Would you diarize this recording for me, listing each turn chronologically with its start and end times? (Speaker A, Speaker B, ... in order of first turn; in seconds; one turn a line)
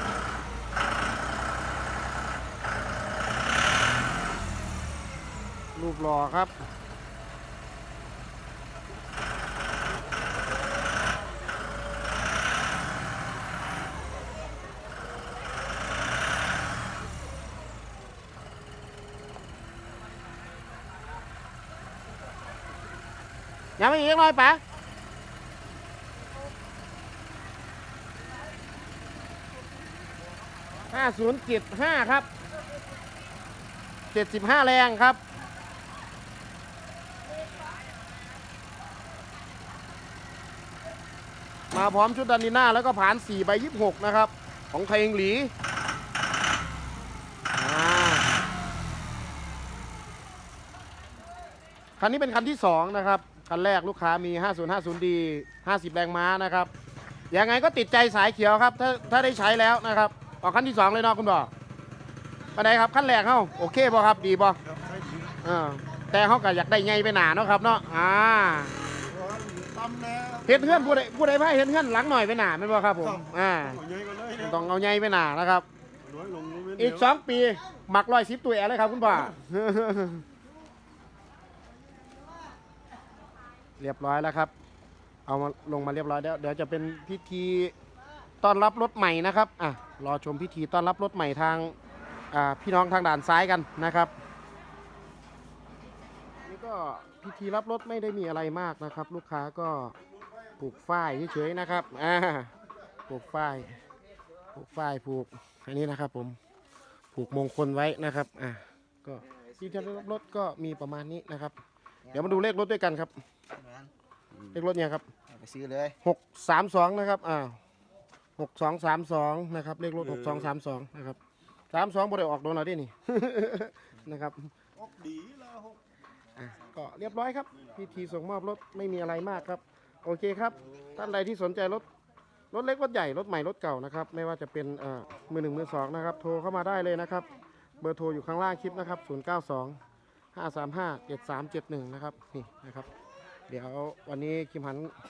Speaker A: 5.8-6.5
Speaker A: 23.8-24.6
Speaker A: 30.9-32.3
Speaker A: 34.1-35.2
Speaker A: 41.7-45.5
Speaker A: 47.5-48.3
Speaker A: 52.0-56.7
Speaker A: 57.3-61.5
Speaker A: 62.5-64.6
Speaker A: 65.4-68.7
Speaker B: 69.2-70.3
Speaker A: 70.4-75.7
Speaker A: 76.7-80.2
Speaker A: 83.8-84.5
Speaker A: 85.3-87.7
Speaker A: 88.4-91.7
Speaker A: 92.3-94.1
Speaker A: 96.5-99.9
Speaker A: 100.6-102.5
Speaker A: 103.1-103.8
Speaker A: 104.5-106.4
Speaker A: 107.1-111.5
Speaker A: 112.1-113.1
Speaker B: 113.6-113.9
Speaker A: 114.5-115.0
Speaker B: 115.3-115.9
Speaker A: 116.0-117.6
Speaker A: 118.4-121.2
Speaker A: 121.7-124.5
Speaker B: 125.0-125.6
Speaker A: 126.3-131.8
Speaker A: 132.5-137.3
Speaker A: 137.8-139.8
Speaker A: 140.3-142.9
Speaker A: 143.5-144.9